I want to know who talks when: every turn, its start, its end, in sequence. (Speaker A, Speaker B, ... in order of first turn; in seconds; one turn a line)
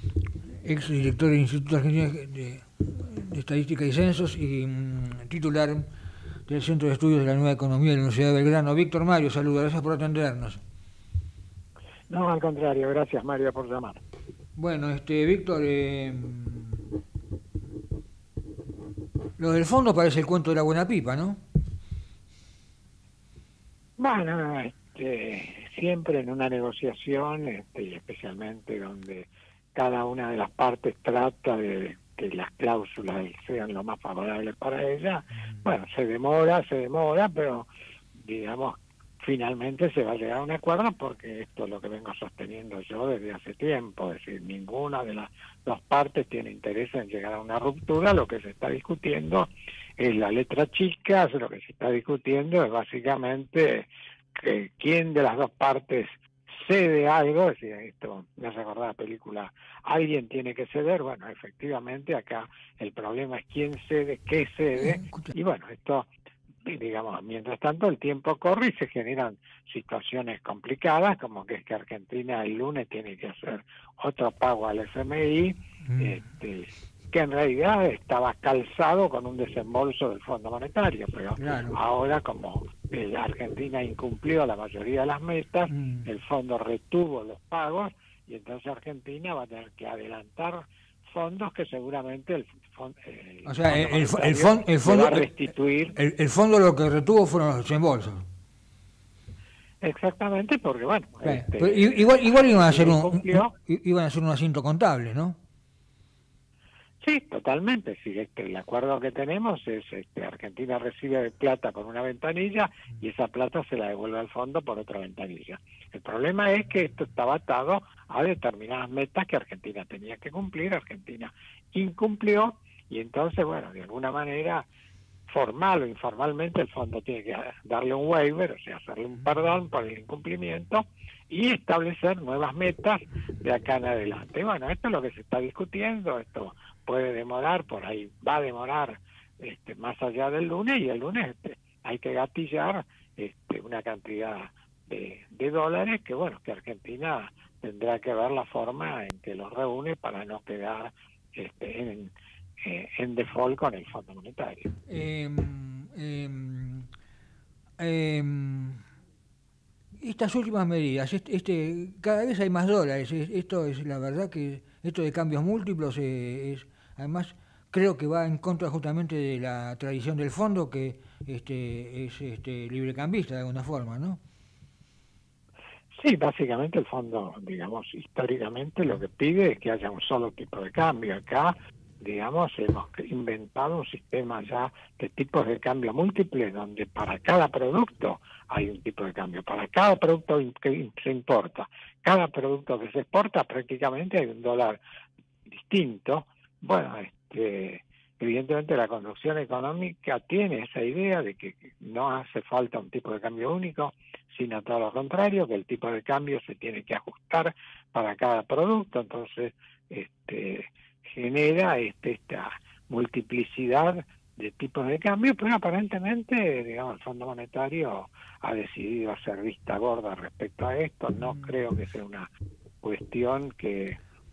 Speaker A: 0.6-5.9
Speaker A: 6.5-10.6
Speaker B: 12.1-14.0
Speaker A: 14.6-16.9
Speaker A: 19.4-21.4
Speaker B: 24.0-66.1
Speaker A: 64.8-65.3
Speaker B: 66.7-96.0
Speaker A: 75.8-76.2
Speaker A: 81.4-81.8
Speaker A: 85.7-86.1
Speaker A: 93.5-95.4
Speaker A: 96.0-98.3
Speaker B: 99.8-103.5
Speaker A: 101.2-105.4
Speaker B: 107.0-124.7
Speaker B: 125.3-154.7
Speaker A: 154.9-156.9
Speaker A: 157.8-158.8
Speaker A: 160.0-174.2
Speaker B: 175.9-194.8
Speaker B: 195.5-222.3
Speaker B: 222.8-224.0